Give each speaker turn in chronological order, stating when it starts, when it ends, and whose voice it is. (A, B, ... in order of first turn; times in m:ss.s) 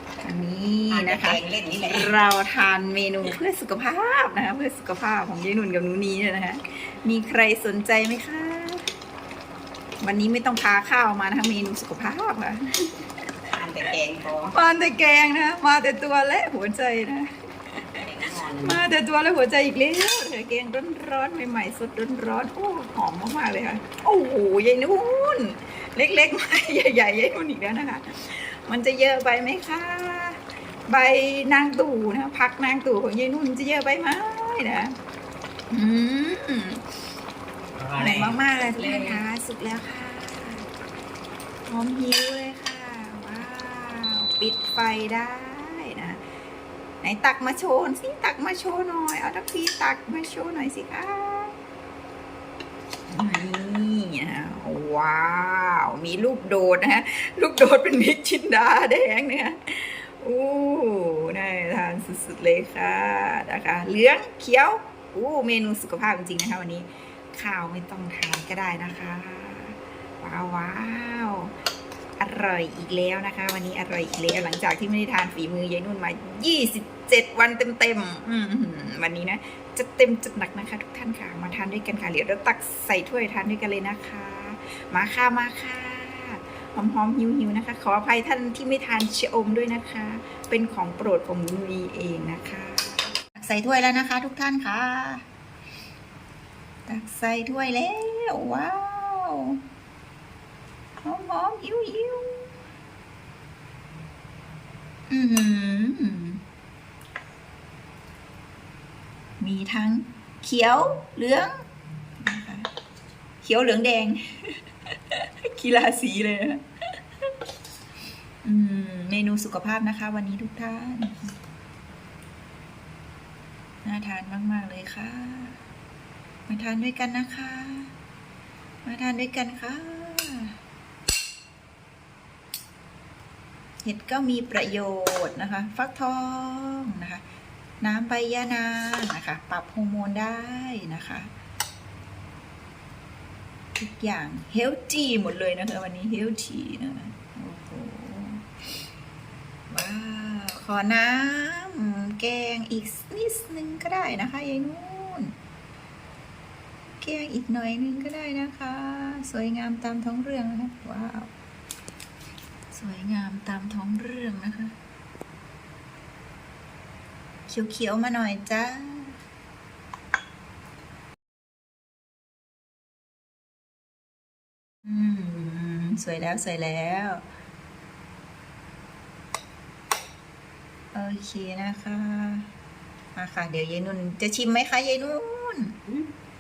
0:00.2-0:08.9 A
0:00.9-0:02.2 B
0:10.0-0:12.6 A
0:13.5-0:14.5 B
0:14.5-0:18.0 A
0:17.9-0:18.9 B
0:18.6-0:35.0 A
0:35.7-0:37.0 A
0:37.8-0:39.2 B
0:38.0-0:40.7 A
0:41.6-0:46.2 A
0:47.0-0:51.5 A
0:53.1-1:11.5 A
1:12.2-1:35.2 A
1:36.9-1:39.6 A
1:41.0-1:42.5 A
1:45.1-1:46.4 A
1:49.4-1:51.5 A
1:52.2-1:52.7 A
1:53.4-1:54.6 A
1:55.1-1:56.6 A
1:58.4-2:01.3 A
2:03.8-2:05.6 A
2:06.5-2:07.9 A
2:08.8-2:10.5 A
2:13.8-2:17.2 A
2:17.8-2:21.3 A
2:23.8-2:28.6 A
2:29.7-2:35.3 A
2:37.0-2:41.3 A
2:42.7-2:44.8 A
2:47.5-2:49.2 A
2:54.8-2:57.2 A
3:00.9-3:02.5 A
3:03.2-3:05.8 A